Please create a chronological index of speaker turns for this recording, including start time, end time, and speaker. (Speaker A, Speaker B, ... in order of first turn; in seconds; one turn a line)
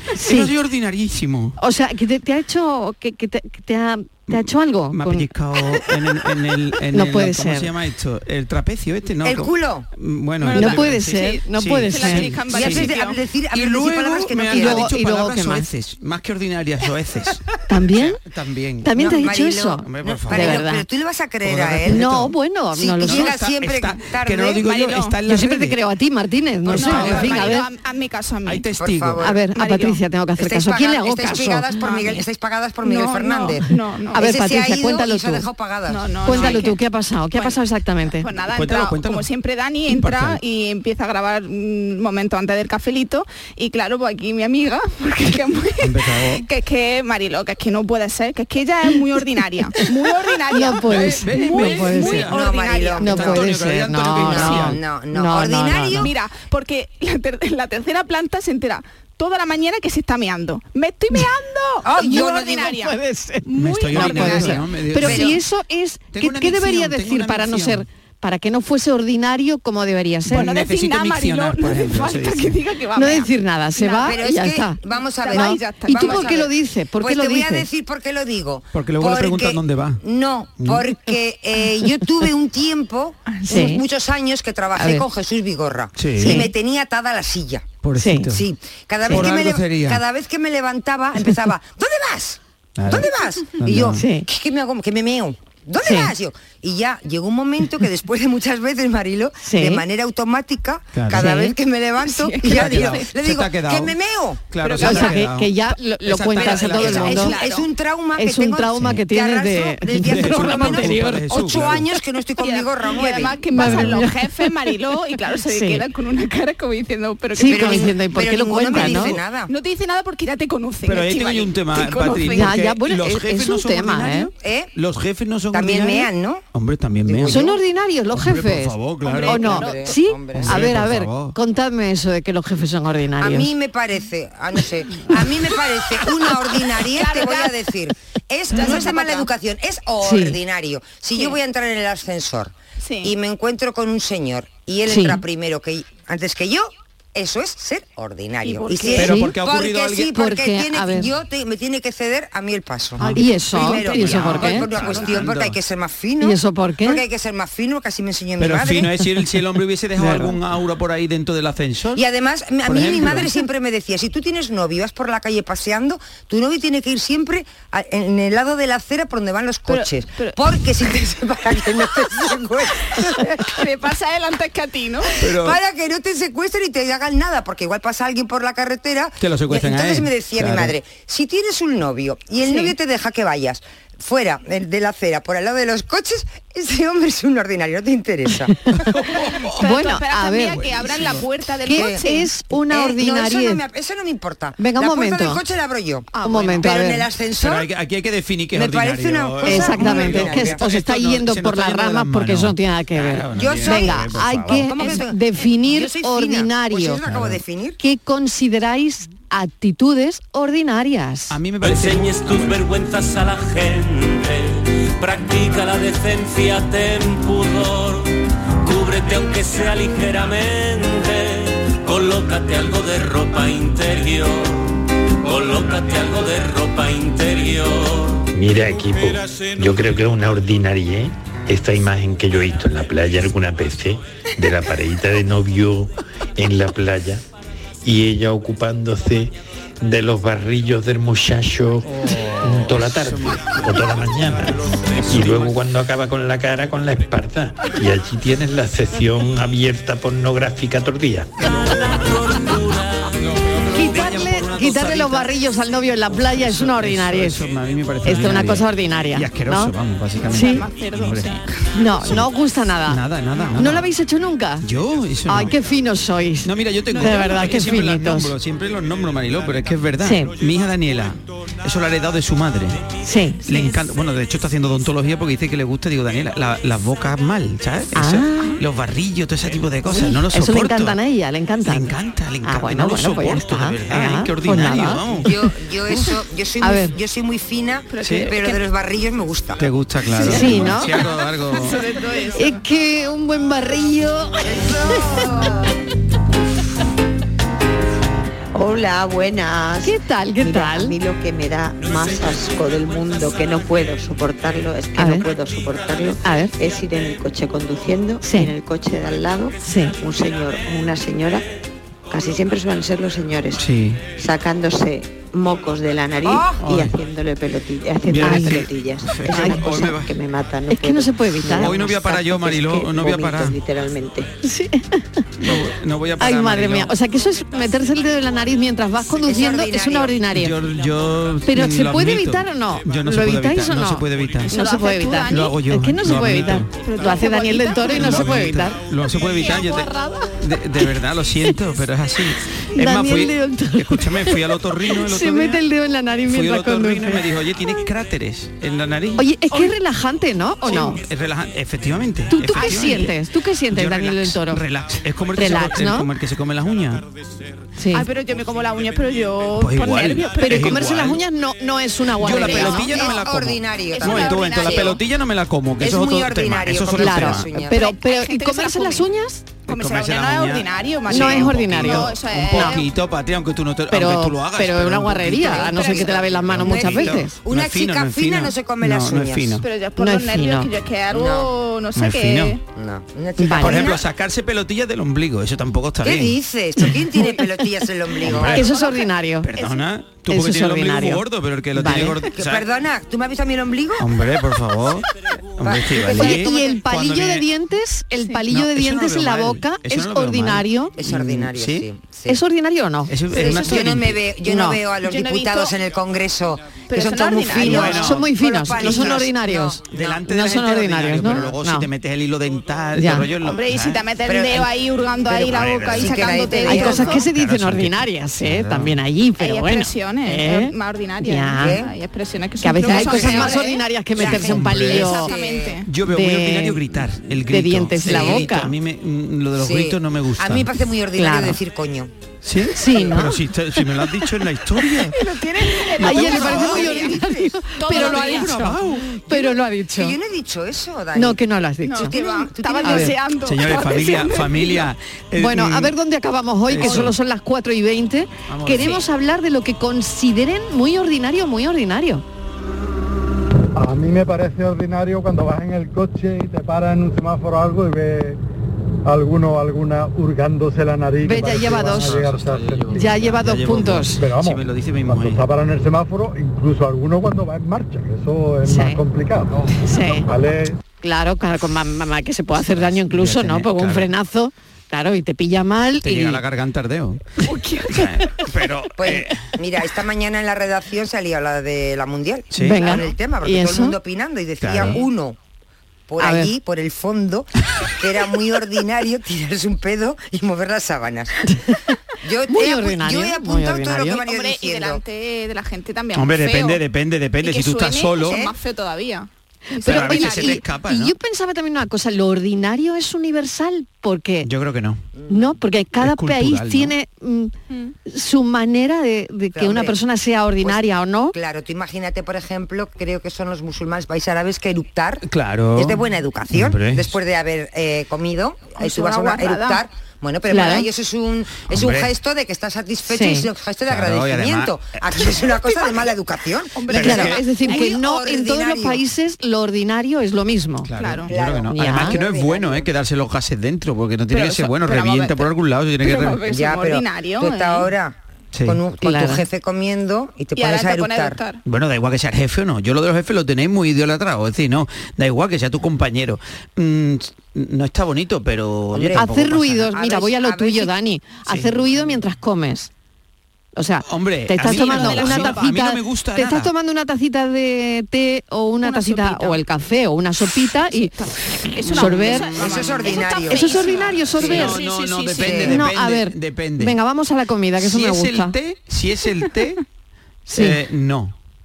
Speaker A: 0.1-0.5
Speaker B: 0.2-1.6
Speaker A: 1.6-5.3
Speaker B: 4.3-12.9
Speaker A: 6.9-7.7
Speaker C: 9.2-9.8
Speaker D: 10.4-13.2
Speaker A: 10.5-12.3
Speaker C: 12.5-14.9
Speaker B: 13.5-19.0
Speaker A: 14.6-15.7
Speaker A: 17.7-18.2
Speaker A: 18.8-20.8
Speaker C: 18.9-22.1
Speaker B: 19.8-20.6
Speaker B: 21.4-22.3
Speaker A: 21.9-23.3
Speaker C: 22.8-24.6
Speaker B: 23.0-25.8
Speaker D: 24.6-25.1
Speaker A: 25.3-27.7
Speaker B: 26.7-27.6
Speaker D: 26.7-28.6
Speaker C: 26.8-27.4
Speaker B: 28.4-29.3
Speaker C: 28.8-29.4
Speaker A: 29.2-31.7
Speaker D: 29.6-30.0
Speaker C: 30.4-36.6
Speaker D: 31.8-32.2
Speaker D: 32.8-34.2
Speaker A: 34.1-35.4
Speaker D: 35.9-36.8
Speaker A: 36.2-38.3
Speaker D: 37.3-37.6
Speaker D: 38.2-53.1
Speaker B: 38.4-39.3
Speaker B: 39.9-40.4
Speaker B: 45.8-46.4
Speaker A: 50.5-52.3
Speaker B: 50.8-54.8
Speaker C: 52.3-53.4
Speaker A: 53.0-56.1
Speaker C: 54.2-56.1
Speaker D: 56.0-62.9
Speaker C: 61.8-62.8
Speaker A: 62.1-70.5
Speaker D: 63.5-64.6
Speaker B: 63.5-65.4
Speaker C: 65.0-65.4
Speaker B: 66.1-67.8
Speaker B: 70.2-72.6
Speaker D: 70.3-74.2
Speaker A: 72.9-74.8
Speaker C: 74.0-87.7
Speaker D: 75.2-76.3
Speaker A: 75.3-77.7
Speaker B: 78.7-80.0
Speaker B: 80.6-80.8
Speaker D: 83.3-83.6
Speaker A: 83.5-83.8
Speaker A: 84.8-85.0
Speaker B: 86.0-86.5
Speaker A: 86.2-86.5
Speaker B: 87.8-88.5
Speaker A: 88.0-88.3
Speaker C: 88.3-104.4
Speaker B: 89.1-90.0
Speaker B: 92.8-94.0
Speaker A: 93.9-94.2
Speaker A: 95.8-96.1
Speaker A: 99.4-99.8
Speaker B: 100.9-101.3
Speaker A: 101.1-101.5
Speaker D: 102.3-103.0
Speaker B: 102.4-104.0
Speaker B: 104.5-107.4
Speaker D: 104.6-105.2
Speaker A: 104.8-107.4
Speaker D: 106.4-107.6
Speaker C: 106.8-113.5
Speaker A: 108.2-111.2
Speaker B: 110.0-111.9
Speaker D: 112.4-117.9
Speaker A: 113.5-114.5
Speaker B: 113.6-113.9
Speaker A: 115.5-115.8
Speaker A: 117.3-119.2
Speaker C: 117.5-119.5
Speaker D: 119.5-122.5
Speaker B: 120.8-127.5
Speaker A: 122.3-124.3
Speaker C: 124.4-124.7
Speaker C: 125.5-126.4
Speaker C: 127.0-127.6
Speaker A: 127.2-128.7
Speaker B: 128.1-129.7
Speaker D: 129.0-129.9
Speaker C: 129.2-130.8
Speaker A: 129.2-133.5
Speaker B: 130.3-131.3
Speaker C: 133.2-158.9
Speaker D: 136.9-137.6
Speaker D: 138.5-139.3
Speaker A: 140.0-140.4
Speaker D: 142.8-143.1
Speaker A: 144.9-145.2
Speaker D: 148.4-149.1
Speaker B: 148.9-150.2
Speaker A: 149.0-149.3
Speaker A: 150.1-151.1
Speaker B: 153.0-155.6
Speaker A: 153.1-154.7
Speaker D: 153.9-155.3
Speaker A: 156.2-157.0
Speaker B: 158.4-162.0
Speaker A: 160.0-160.3
Speaker C: 161.9-173.6
Speaker B: 162.6-163.3
Speaker D: 169.7-170.4
Speaker D: 173.5-175.2
Speaker B: 175.2-175.6
Speaker C: 175.2-188.6
Speaker B: 179.2-180.7
Speaker B: 188.8-189.8
Speaker A: 189.6-190.6
Speaker D: 189.6-192.3
Speaker B: 190.5-191.3
Speaker A: 191.6-193.6
Speaker C: 191.7-192.0
Speaker C: 192.7-197.7
Speaker A: 194.6-195.4
Speaker A: 196.2-197.1
Speaker B: 197.4-205.0
Speaker C: 198.5-200.6
Speaker A: 199.4-207.0
Speaker C: 203.3-207.8
Speaker B: 207.1-207.4
Speaker A: 207.8-211.3
Speaker B: 211.3-212.6
Speaker E: 211.6-228.2
Speaker F: 228.3-237.2
Speaker F: 237.8-251.3
Speaker B: 241.9-243.8
Speaker B: 245.2-245.4
Speaker E: 251.4-253.1
Speaker A: 253.7-257.4
Speaker B: 253.7-255.3
Speaker B: 256.1-261.3
Speaker A: 258.0-259.7
Speaker A: 260.3-260.6
Speaker D: 260.4-261.6
Speaker A: 261.7-263.0
Speaker B: 262.0-262.3
Speaker B: 262.9-263.9
Speaker A: 263.6-264.7
Speaker B: 264.6-265.6
Speaker A: 265.3-268.3
Speaker B: 266.4-272.8
Speaker D: 267.0-267.4
Speaker A: 270.0-270.3
Speaker A: 273.0-273.4
Speaker B: 273.4-281.0
Speaker A: 277.9-278.6
Speaker A: 279.9-281.9
Speaker B: 281.6-285.3
Speaker A: 282.4-285.0
Speaker C: 285.2-289.7
Speaker A: 286.6-286.9
Speaker D: 287.9-288.6
Speaker B: 288.0-288.3
Speaker B: 289.6-291.8
Speaker D: 290.2-292.6
Speaker A: 290.2-290.9
Speaker A: 292.3-294.6
Speaker G: 295.0-295.5
Speaker G: 298.5-311.5
Speaker A: 299.8-300.9
Speaker A: 305.0-305.2
Speaker A: 306.2-306.5
Speaker A: 308.2-308.5
Speaker A: 309.6-309.9
Speaker G: 312.1-324.3
Speaker B: 313.6-314.0
Speaker C: 316.2-316.6
Speaker B: 316.6-316.9
Speaker B: 318.1-320.1
Speaker A: 318.2-318.6
Speaker A: 319.3-319.7
Speaker A: 320.7-321.8
Speaker B: 321.6-323.6
Speaker A: 324.4-325.5
Speaker B: 325.4-326.9
Speaker A: 326.2-330.6
Speaker C: 329.2-330.2
Speaker B: 330.3-334.5
Speaker A: 331.5-338.8
Speaker D: 334.4-335.5
Speaker B: 335.1-336.7
Speaker D: 336.8-338.4
Speaker B: 337.9-345.6
Speaker D: 339.4-339.8
Speaker A: 339.5-340.2
Speaker A: 342.7-344.4
Speaker A: 344.9-347.2
Speaker B: 346.3-349.7
Speaker A: 349.2-351.0
Speaker B: 350.6-353.1
Speaker A: 352.3-354.6
Speaker B: 353.7-357.0
Speaker A: 355.4-356.1
Speaker A: 357.8-358.1
Speaker D: 357.9-360.7
Speaker B: 359.6-361.2
Speaker A: 360.4-363.0
Speaker B: 362.2-367.5
Speaker C: 362.9-364.9
Speaker D: 363.9-365.0
Speaker C: 365.8-367.8
Speaker A: 366.9-369.5
Speaker D: 367.7-369.1
Speaker B: 369.7-375.9
Speaker D: 369.7-372.9
Speaker A: 371.1-372.8
Speaker A: 373.9-377.3
Speaker C: 375.4-379.6
Speaker D: 375.7-376.1
Speaker B: 376.4-379.6
Speaker D: 379.6-382.6
Speaker A: 380.0-380.7
Speaker C: 381.1-381.5
Speaker B: 381.9-382.6
Speaker C: 382.7-384.0
Speaker A: 383.4-383.9
Speaker B: 383.6-386.4
Speaker C: 386.0-388.6
Speaker A: 386.8-387.4
Speaker B: 388.2-388.7
Speaker A: 388.5-389.5
Speaker D: 388.6-389.8
Speaker B: 389.4-392.7
Speaker A: 390.3-391.2
Speaker A: 391.7-392.2
Speaker C: 392.4-394.0
Speaker B: 394.0-395.1
Speaker B: 395.6-397.5
Speaker C: 395.6-396.8
Speaker A: 396.1-400.9
Speaker B: 398.5-401.9
Speaker C: 401.0-402.4
Speaker A: 402.3-403.1
Speaker B: 403.1-404.2
Speaker C: 403.3-410.2
Speaker A: 404.4-404.8
Speaker D: 405.0-405.7
Speaker D: 406.8-408.0
Speaker B: 407.5-409.2
Speaker A: 407.8-411.9
Speaker B: 409.9-414.0
Speaker A: 412.9-413.3
Speaker D: 413.4-417.2
Speaker C: 414.2-414.7
Speaker C: 415.3-417.1
Speaker B: 415.3-418.9
Speaker A: 416.6-421.8
Speaker D: 419.4-423.8
Speaker C: 421.6-421.9
Speaker A: 422.6-425.3
Speaker C: 422.8-423.6
Speaker B: 424.2-425.1
Speaker C: 424.2-425.8
Speaker D: 424.5-425.9
Speaker B: 425.9-430.7
Speaker A: 426.1-426.8
Speaker A: 427.5-428.7
Speaker C: 429.6-432.1
Speaker A: 431.1-431.6
Speaker B: 432.4-435.2
Speaker A: 432.7-433.4
Speaker C: 432.9-433.2
Speaker D: 435.1-438.5
Speaker A: 435.8-440.1
Speaker B: 436.0-437.1
Speaker C: 436.6-437.2
Speaker B: 437.8-439.1
Speaker C: 439.3-441.4
Speaker A: 441.1-442.1
Speaker D: 441.8-444.9
Speaker C: 441.9-443.1
Speaker A: 442.8-443.1
Speaker B: 443.4-445.9
Speaker A: 445.4-452.2
Speaker B: 446.7-447.1
Speaker B: 448.5-449.0
Speaker H: 453.7-458.4
Speaker H: 459.0-463.2
Speaker A: 461.2-462.2
Speaker B: 461.8-465.4
Speaker A: 462.9-464.2
Speaker H: 464.2-470.8
Speaker A: 468.6-469.0
Speaker A: 469.8-470.3
Speaker A: 471.0-476.4
Speaker B: 472.6-474.1
Speaker B: 476.0-479.4
Speaker A: 477.4-478.1
Speaker C: 479.0-485.4
Speaker B: 482.5-483.0
Speaker A: 482.6-483.9
Speaker B: 484.6-485.0
Speaker C: 486.1-491.4
Speaker A: 486.2-486.5
Speaker A: 491.5-491.8
Speaker C: 492.2-495.0
Speaker A: 492.5-494.2
Speaker D: 494.1-496.8
Speaker B: 496.1-498.4
Speaker D: 497.4-500.6
Speaker C: 498.3-498.5
Speaker A: 499.8-504.5
Speaker B: 499.8-501.1
Speaker B: 504.4-505.0
Speaker C: 505.1-505.6
Speaker A: 505.3-507.5
Speaker B: 506.0-506.9
Speaker A: 508.1-511.3
Speaker C: 509.5-510.0
Speaker C: 510.6-515.2
Speaker B: 515.2-517.1
Speaker C: 515.7-529.0
Speaker D: 518.8-519.8
Speaker A: 520.5-520.9
Speaker B: 521.7-522.1
Speaker A: 523.1-523.5
Speaker B: 523.9-525.7
Speaker D: 526.8-528.0
Speaker B: 526.9-527.4
Speaker A: 526.9-530.9
Speaker B: 530.8-536.4
Speaker D: 531.0-531.3
Speaker C: 531.3-532.9
Speaker A: 531.7-532.2
Speaker D: 534.3-535.5
Speaker D: 536.0-537.9
Speaker C: 536.5-541.4
Speaker B: 538.5-538.8
Speaker A: 539.0-539.4
Speaker D: 540.5-541.6
Speaker B: 541.6-549.9
Speaker C: 548.9-550.9
Speaker A: 549.1-552.9
Speaker B: 551.5-551.7
Speaker A: 553.8-561.1
Speaker B: 554.0-556.7
Speaker D: 554.6-555.7
Speaker D: 558.8-559.6
Speaker D: 561.0-565.6
Speaker B: 561.8-563.3
Speaker A: 561.9-562.5
Speaker C: 562.6-563.8
Speaker A: 563.5-564.8
Speaker B: 564.3-567.0
Speaker C: 565.4-565.8
Speaker A: 565.6-568.5
Speaker B: 567.8-569.8
Speaker A: 570.5-570.8
Speaker B: 570.5-571.3